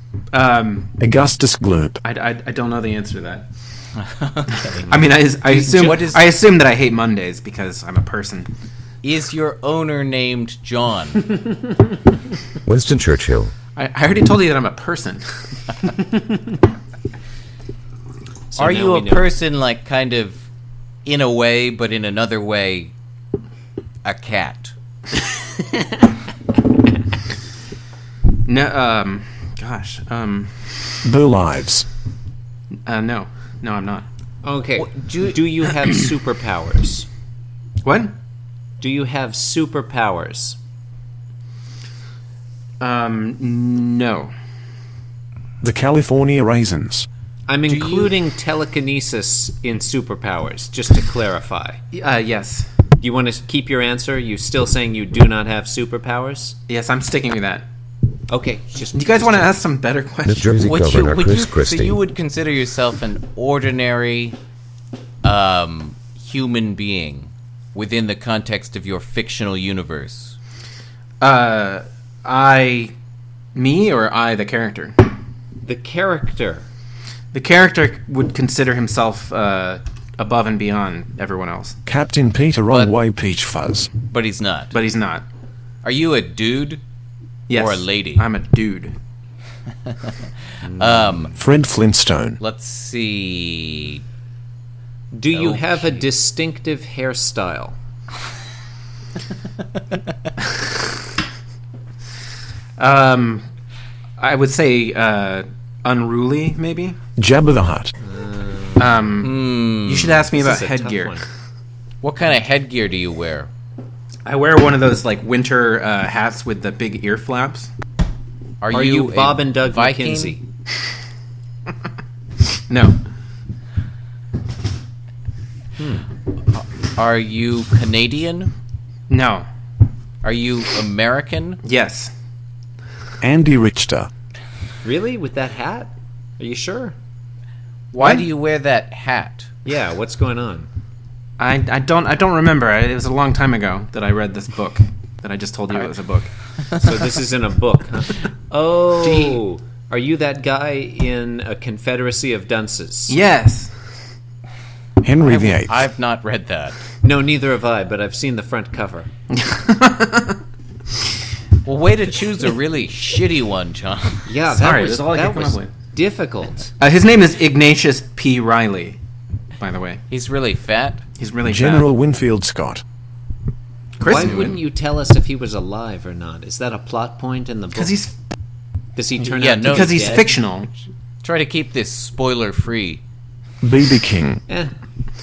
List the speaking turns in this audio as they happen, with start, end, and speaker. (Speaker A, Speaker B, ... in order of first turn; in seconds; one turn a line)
Speaker A: 0.3-0.9
Speaker B: 1.0-2.0
Speaker A: 2.0-3.5
Speaker C: 4.0-6.3
Speaker A: 4.8-8.5
Speaker C: 9.0-11.2
Speaker D: 12.7-13.5
Speaker A: 13.8-15.2
Speaker A: 15.8-16.4
Speaker E: 18.5-19.3
Speaker C: 18.6-20.4
Speaker C: 21.0-22.9
Speaker C: 24.0-24.7
Speaker E: 25.4-26.1
Speaker A: 28.4-30.6
Speaker B: 31.0-31.9
Speaker A: 32.9-34.0
Speaker E: 34.4-37.1
Speaker C: 34.8-35.4
Speaker A: 37.8-38.1
Speaker E: 38.8-40.6
Speaker A: 42.8-44.3
Speaker B: 45.6-47.1
Speaker E: 47.5-51.8
Speaker C: 47.7-48.1
Speaker A: 51.9-52.7
Speaker E: 53.0-56.5
Speaker A: 56.7-57.7
Speaker E: 58.3-59.5
Speaker A: 58.9-60.6
Speaker D: 60.2-62.0
Speaker C: 60.6-64.3
Speaker C: 65.2-70.3
Speaker A: 71.2-72.9
Speaker A: 73.5-75.0
Speaker E: 75.6-76.7
Speaker A: 77.3-81.8
Speaker B: 81.8-83.9
Speaker C: 84.1-84.7
Speaker A: 84.7-85.2
Speaker C: 85.8-86.8
Speaker A: 87.5-88.9
Speaker C: 87.5-88.3
Speaker E: 90.7-91.3
Speaker C: 90.8-91.3
Speaker B: 91.3-92.4
Speaker C: 92.4-94.0
Speaker E: 95.1-97.8
Speaker C: 95.3-96.0
Speaker A: 102.8-103.4
Speaker A: 104.2-107.0
Speaker B: 107.2-107.9
Speaker E: 108.0-109.0
Speaker A: 108.8-111.2
Speaker C: 109.2-110.2
Speaker E: 110.4-111.2
Speaker C: 112.0-113.5
Speaker A: 114.2-117.7
Speaker C: 118.6-120.4
Speaker E: 118.7-120.4
Speaker A: 122.7-123.0
Speaker E: 125.8-126.0
Speaker C: 126.5-128.5
Speaker A: 129.1-129.5
Speaker C: 130.2-131.6
Speaker A: 131.6-132.1
Speaker B: 133.2-134.1
Speaker E: 134.8-136.9
Speaker C: 137.9-139.5
Speaker A: 138.0-138.2
Speaker E: 139.6-140.7
Speaker A: 141.4-146.3
Speaker E: 146.8-153.2
Speaker A: 149.0-149.4
Speaker A: 153.1-153.7
Speaker B: 155.0-155.9
Speaker C: 155.2-156.8
Speaker E: 157.0-159.1
Speaker A: 159.3-160.4
Speaker C: 161.6-164.2
Speaker E: 164.2-166.7
Speaker A: 164.5-165.7
Speaker A: 166.8-169.0
Speaker A: 169.6-170.0
Speaker C: 170.1-171.0
Speaker A: 171.2-171.9
Speaker B: 171.4-172.8
Speaker A: 174.0-174.6
Speaker E: 174.0-177.9
Speaker C: 174.1-174.5
Speaker A: 177.7-178.1
Speaker E: 178.9-180.3
Speaker C: 179.2-180.3
Speaker A: 179.7-180.7
Speaker C: 181.2-183.0
Speaker B: 183.6-184.4
Speaker E: 184.5-184.7